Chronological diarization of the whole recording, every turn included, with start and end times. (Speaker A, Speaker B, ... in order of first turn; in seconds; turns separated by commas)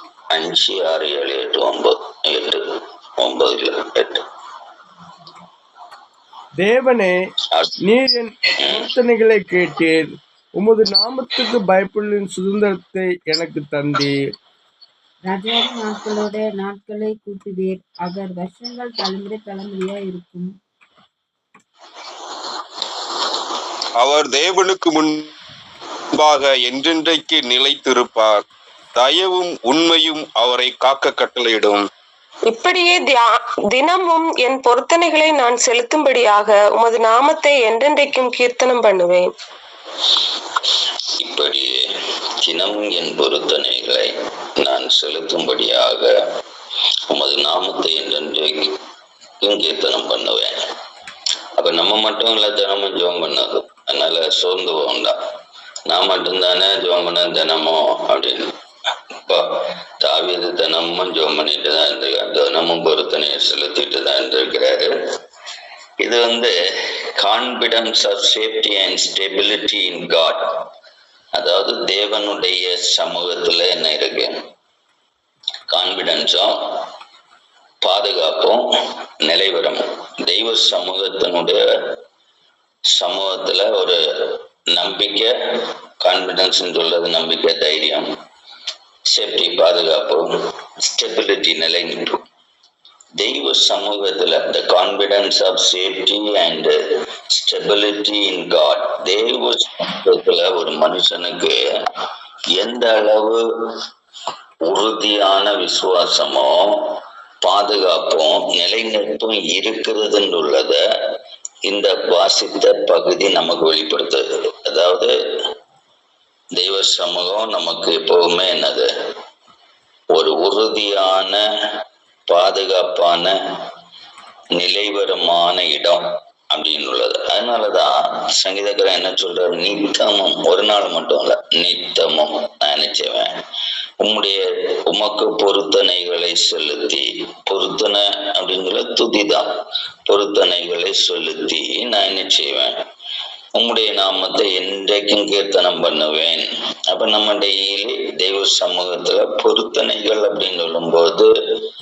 Speaker A: 0.3-4.2, Speaker B: 6.6-7.1, Speaker B: 7.8-14.2, Speaker A: 8.6-8.9, Speaker C: 15.2-20.5, Speaker D: 24.0-25.3, Speaker D: 26.1-31.9, Speaker E: 32.5-39.3, Speaker A: 41.2-41.9, Speaker A: 42.4-46.1, Speaker A: 47.1-48.8, Speaker A: 49.4-50.7, Speaker A: 51.6-55.2, Speaker A: 55.9-58.5, Speaker A: 59.2-65.1, Speaker A: 66.0-70.7, Speaker A: 71.3-74.4, Speaker A: 75.7-76.9, Speaker A: 77.8-78.7, Speaker A: 79.2-82.0, Speaker A: 82.9-88.1, Speaker A: 89.1-92.2, Speaker A: 93.2-101.6, Speaker A: 102.6-103.7, Speaker A: 104.7-110.8, Speaker A: 111.7-115.1, Speaker A: 116.6-118.9, Speaker A: 120.1-121.4, Speaker A: 122.3-123.4, Speaker A: 124.5-133.3, Speaker A: 134.0-139.5, Speaker A: 140.1-142.8, Speaker A: 143.6-151.3